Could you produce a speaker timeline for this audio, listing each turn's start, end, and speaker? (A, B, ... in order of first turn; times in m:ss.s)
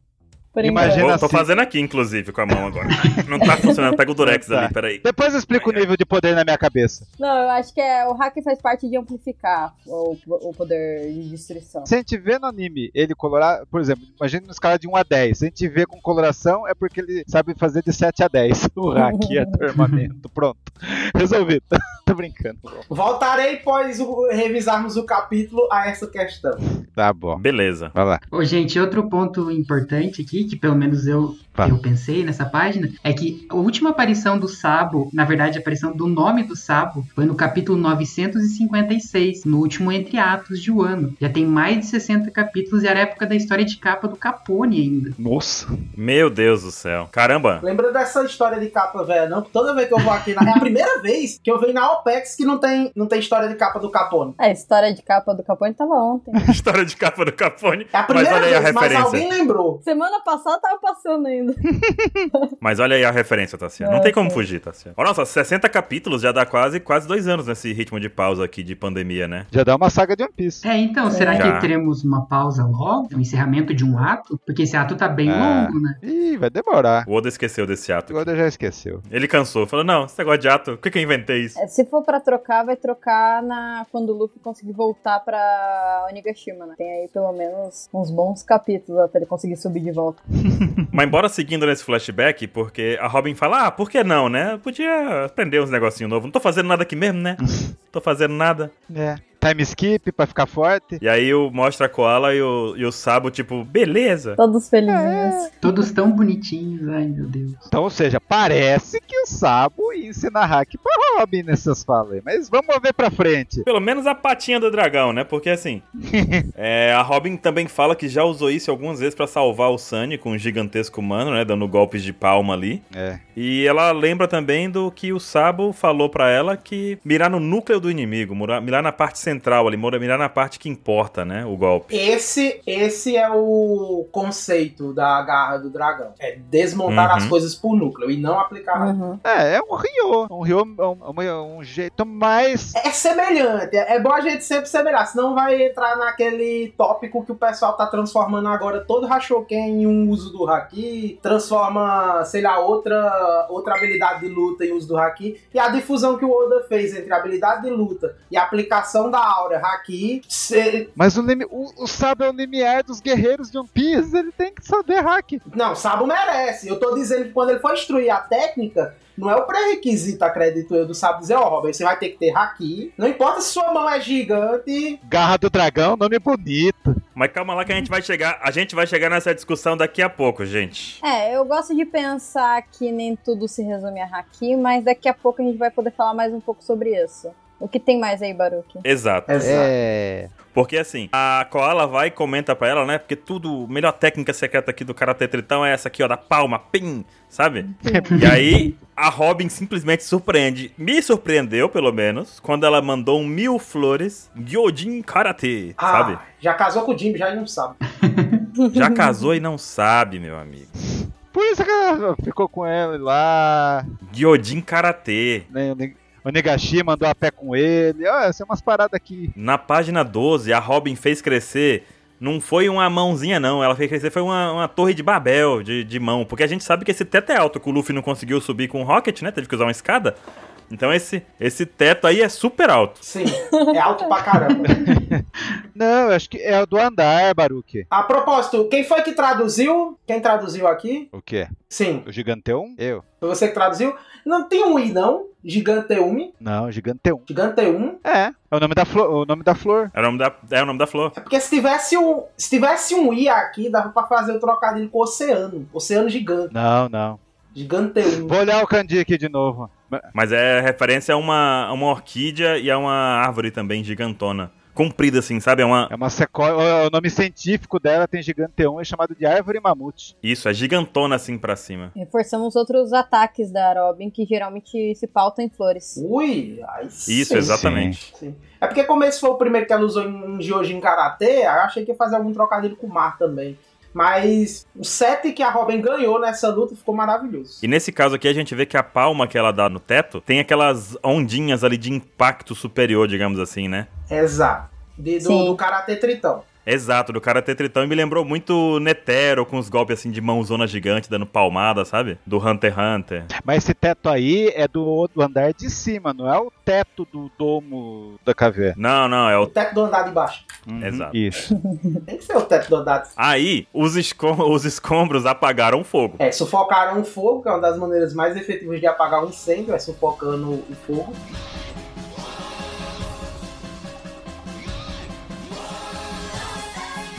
0:00.5-0:01.2 A
0:00.6-0:01.4 B
0:00.8-0:05.8 C
0:04.2-0:07.0 B
0:07.2-0:11.9 A
0:11.8-0:22.8 B
0:19.0-0:19.5 A
0:22.9-0:26.6 D
0:26.8-0:27.4 B
0:27.4-0:27.9 C
0:27.9-0:28.2 B
0:28.3-0:45.2 E
0:45.2-0:45.7 B
0:45.9-0:47.6 C
0:47.6-0:54.4 D
0:54.4-0:56.5 A
0:56.5-0:59.3 C
0:57.9-0:59.8 D
0:59.8-1:01.7 A
1:01.9-1:02.2 B
1:02.6-1:09.5 C
1:03.8-1:04.4 A
1:09.5-1:10.6 B
1:10.6-1:16.0 E
1:11.1-1:11.5 A
1:11.3-1:11.7 C
1:15.2-1:17.1 B
1:17.0-1:18.3 C
1:18.1-1:19.0 B
1:19.1-1:21.6 C
1:21.6-1:30.2 A
1:30.5-1:30.8 B
1:30.9-1:38.7 C
1:38.9-1:41.0 B
1:41.0-1:44.4 C
1:44.4-1:45.5 A
1:44.9-1:45.5 B
1:45.6-1:47.7 E
1:47.7-1:53.6 B
1:53.6-1:55.8 C
1:56.1-1:56.4 B
1:56.6-2:02.8 C
2:02.9-2:03.2 B
2:03.4-2:11.9 C
2:11.9-2:18.9 D
2:16.9-2:17.4 C
2:18.7-2:19.2 A
2:19.2-2:22.8 B
2:22.7-2:40.9 D
2:41.0-2:45.4 B
2:45.5-2:55.0 D
2:55.0-2:57.0 B
2:57.1-3:01.0 C
3:01.0-3:08.8 A
3:08.8-3:09.7 C
3:09.3-3:09.7 D
3:09.4-3:10.3 B
3:10.5-3:26.2 C
3:17.8-3:18.2 B
3:17.8-3:18.2 A
3:18.1-3:18.4 E
3:25.8-3:27.8 D
3:28.0-3:28.4 E
3:28.6-3:29.2 A
3:28.7-3:30.7 C
3:30.9-3:33.9 B
3:34.1-3:35.4 C
3:35.5-3:39.3 B
3:39.4-3:50.2 C
3:50.7-3:53.0 C
3:53.0-3:54.7 D
3:53.3-3:54.7 A
3:54.6-3:57.9 B
3:57.9-4:01.1 D
4:01.1-4:01.5 B
4:01.7-4:02.0 D
4:02.0-4:03.0 B
4:03.2-4:06.3 D
4:06.4-4:07.3 B
4:07.3-4:08.0 D
4:08.0-4:09.9 B
4:09.9-4:11.1 C
4:11.1-4:16.5 D
4:16.5-4:17.2 B
4:17.5-4:18.3 D
4:18.1-4:20.1 B
4:20.1-4:25.9 C
4:25.9-4:30.1 B
4:30.2-4:31.9 C
4:31.9-4:36.0 A
4:36.0-4:47.6 D
4:37.1-4:38.0 C
4:37.3-4:38.0 B
4:47.6-4:53.9 C
4:54.1-4:56.4 D
4:55.2-4:55.6 A
4:56.6-5:03.3 C
5:03.4-5:08.8 B
5:08.8-5:09.5 C
5:09.4-5:10.5 D
5:10.7-5:11.5 B
5:10.8-5:11.2 C
5:11.5-5:12.0 A
5:12.1-5:13.1 D
5:13.2-5:16.2 C
5:16.2-5:21.2 D